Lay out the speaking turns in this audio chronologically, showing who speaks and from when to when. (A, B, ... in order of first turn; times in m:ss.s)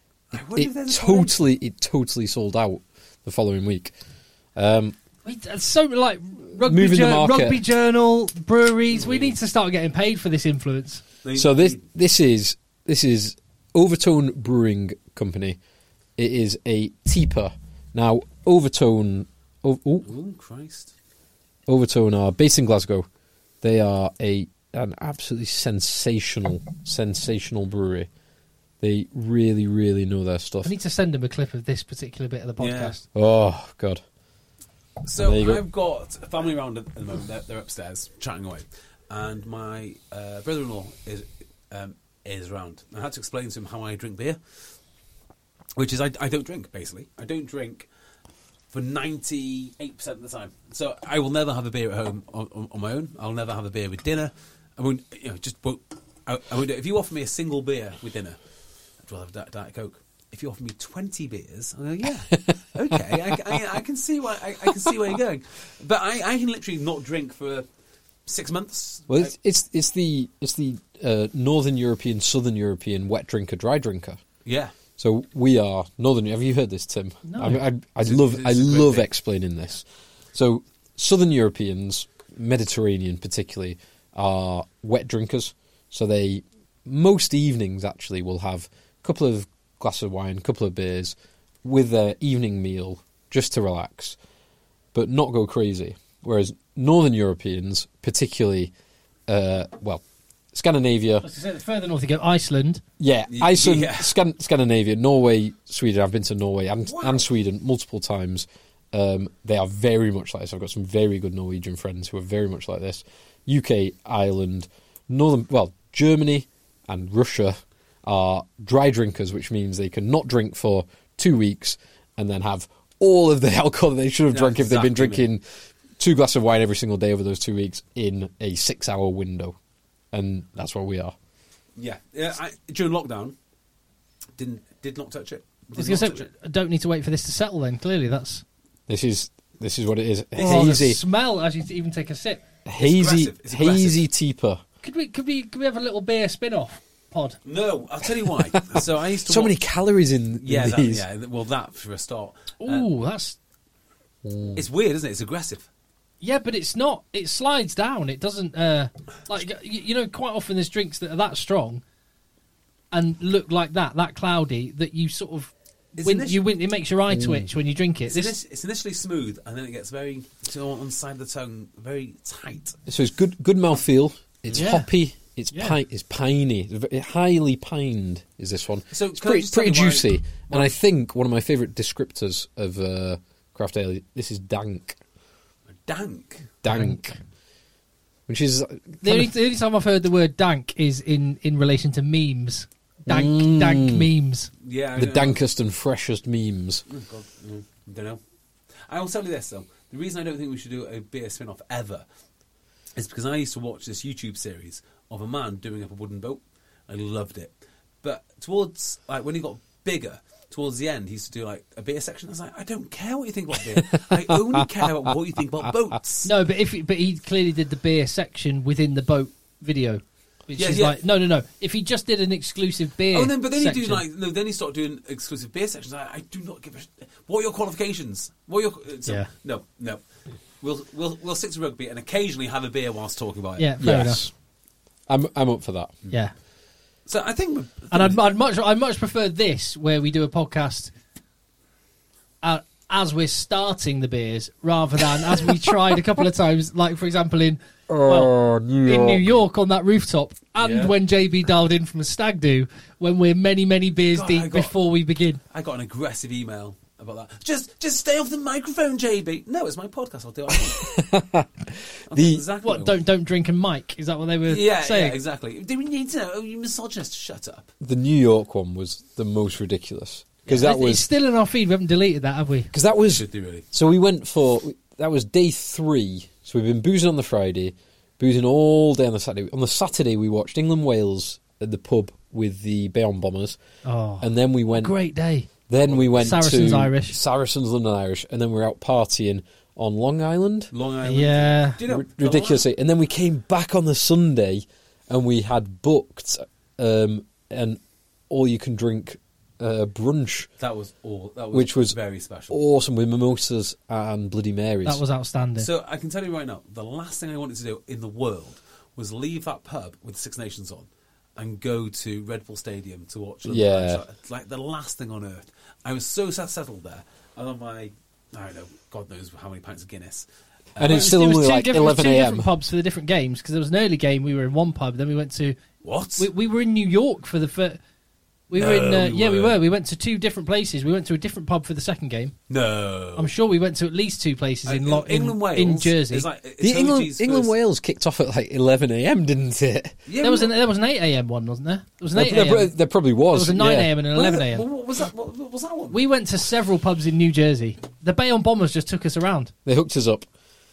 0:00.3-0:01.4 A
0:00.5-0:03.9 B
0:04.6-0:04.9 B
0:05.2-0:11.0 C
0:06.5-0:07.6 B
0:08.9-0:09.3 A
0:11.2-0:11.8 A
0:11.3-0:15.6 B
0:16.2-0:20.1 B
0:20.0-0:20.9 A
0:21.7-0:23.1 B
0:23.6-0:28.1 B
0:28.8-0:30.7 B
0:30.6-0:33.0 C
0:32.6-0:32.9 A
0:33.1-0:34.0 B
0:35.0-0:44.4 A
0:35.2-0:35.6 B
0:45.8-0:47.9 A
0:48.7-0:58.4 A
0:59.0-1:07.6 A
1:08.2-1:09.3 A
1:09.1-1:14.2 B
1:14.4-1:14.7 A
1:15.0-1:34.2 B
1:17.2-1:17.6 C
1:18.0-1:19.1 A
1:34.9-1:38.7 B
1:39.3-1:41.2 B
1:41.2-1:42.8 C
1:43.0-2:05.4 B
1:43.3-1:44.1 A
1:46.9-1:47.2 A
2:04.3-2:05.2 A
2:06.0-2:09.6 B
2:10.1-2:11.1 B
2:11.8-2:13.3 A
2:14.4-2:16.3 A
2:15.7-2:18.4 C
2:18.9-2:21.0 B
2:20.4-2:22.4 C
2:20.4-2:20.8 A
2:22.6-2:24.6 B
2:22.8-2:24.0 A
2:24.8-2:27.4 C
2:27.4-2:29.5 A
2:29.2-2:31.0 B
2:30.4-2:32.9 A
2:32.6-2:33.4 C
2:34.2-2:34.6 B
2:34.6-2:35.7 A
2:36.2-2:41.8 C
2:42.9-2:48.3 C
2:46.0-2:46.4 A
2:47.1-2:47.5 B
2:48.1-2:52.8 A
2:52.9-3:05.0 B
2:54.5-2:54.7 A
2:54.6-2:54.9 C
2:55.5-2:55.8 C
2:58.9-3:00.8 A
3:05.8-3:06.5 A
3:06.6-3:07.0 B
3:06.6-3:07.2 C
3:08.3-3:09.3 B
3:09.0-3:14.5 C
3:13.0-3:14.1 B
3:14.6-3:15.4 A
3:15.0-3:16.8 B
3:16.9-3:18.2 A
3:18.9-3:22.0 A
3:23.0-3:36.3 A
3:33.8-3:34.6 B
3:36.2-3:44.0 C
3:40.6-3:41.0 A
3:43.1-3:50.0 A
3:50.6-3:53.7 A
3:53.6-3:54.2 C
3:53.8-3:54.3 B
3:55.1-3:56.0 B
3:57.1-3:58.2 A
3:57.9-4:00.9 C
4:02.4-4:08.3 C
4:07.9-4:09.3 B
4:08.8-4:15.4 C
4:10.6-4:10.9 A
4:14.1-4:14.8 A
4:15.5-4:21.0 A
4:20.5-4:22.4 B
4:22.1-4:23.0 A
4:22.6-4:25.2 C
4:24.4-4:27.7 A
4:27.8-4:31.0 B
4:30.5-4:32.7 C
4:32.7-4:43.6 B
4:33.1-4:33.6 A
4:43.8-4:45.5 C
4:44.2-4:44.9 B
4:45.7-4:50.7 B
4:45.8-4:46.6 A
4:46.2-4:47.2 C
4:50.7-4:52.6 A
4:51.0-4:51.8 C
4:51.8-4:57.8 B
4:58.3-5:00.5 B
5:00.6-5:02.6 A
5:01.5-5:02.0 B
5:02.5-5:05.0 B
5:04.8-5:05.7 C
5:05.6-5:21.1 A
5:13.4-5:14.0 B
5:20.8-5:22.5 B
5:20.9-5:25.6 C
5:25.8-5:26.3 A
5:26.2-5:27.8 C
5:28.5-5:32.4 C
5:28.5-5:29.6 A
5:32.5-5:33.3 A
5:33.2-5:36.3 C
5:34.6-5:37.5 A
5:36.6-5:40.0 B
5:40.0-5:40.5 A
5:40.2-5:42.7 C
5:42.1-5:43.9 B
5:43.3-5:44.6 C
5:44.1-5:46.0 A
5:45.9-5:49.5 C
5:49.6-5:50.3 B